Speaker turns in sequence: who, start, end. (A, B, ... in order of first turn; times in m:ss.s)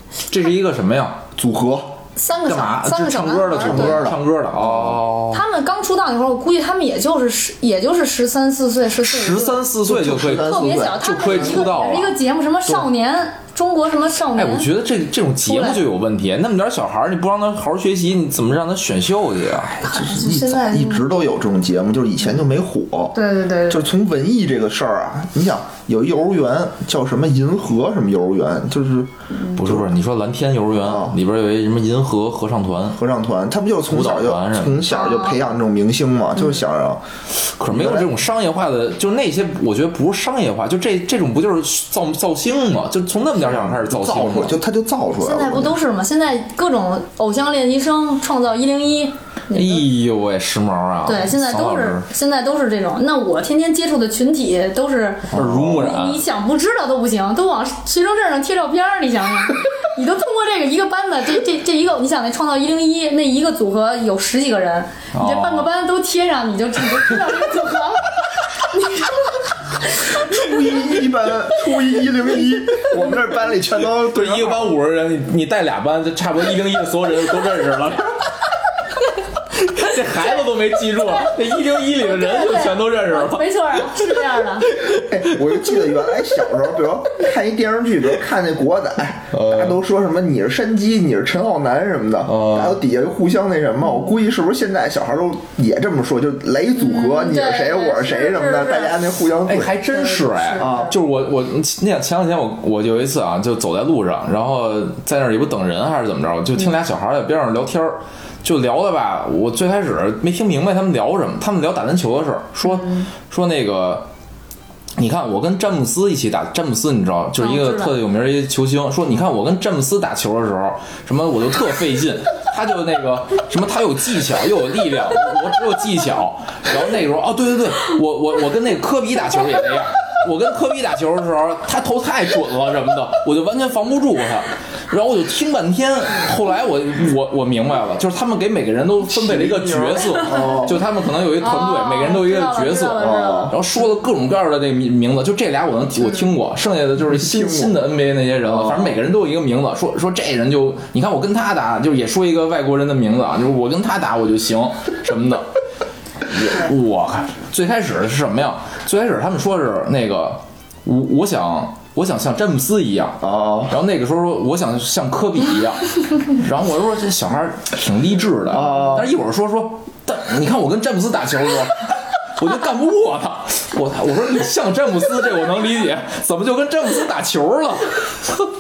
0:00.3-0:01.2 A
0:01.4-0:01.9 B
0:02.2-0:04.1 C
0:02.5-0:05.4 A
0:03.6-0:04.2 B
0:05.3-0:09.6 C
0:09.0-0:12.1 A
0:09.8-0:11.7 B
0:10.4-0:14.7 C
0:14.4-0:19.8 A
0:15.4-0:15.8 C
0:19.8-0:23.2 B
0:19.8-0:21.1 C
0:23.1-0:23.8 C
0:23.7-0:29.8 B
0:29.6-0:33.0 A
0:30.9-0:31.2 B
0:33.0-0:37.0 B
0:33.9-0:34.9 A
0:34.9-0:35.4 C
0:37.6-0:44.6 A
0:37.7-0:38.1 B
0:43.4-0:45.8 B
0:45.2-0:49.8 C
0:49.5-0:52.1 A
0:51.0-1:08.1 C
0:55.3-0:56.2 A
0:55.3-0:55.7 B
1:05.1-1:05.7 A
1:08.6-1:10.5 C
1:10.2-1:14.8 B
1:13.8-1:18.3 A
1:19.6-1:24.0 A
1:21.3-1:24.7 C
1:24.8-1:25.4 A
1:24.9-1:39.8 B
1:29.3-1:29.8 A
1:32.3-1:32.8 A
1:36.8-1:39.0 C
1:39.5-1:54.1 A
1:39.9-1:40.9 C
1:40.6-1:41.0 B
1:55.0-2:35.5 A
1:57.4-1:58.0 C
2:19.1-2:20.8 B
2:21.4-2:23.6 C
2:23.0-2:23.6 B
2:27.0-2:27.9 B
2:28.5-2:29.0 B
2:36.3-2:58.5 A
2:43.2-2:43.7 B
2:48.5-2:49.1 B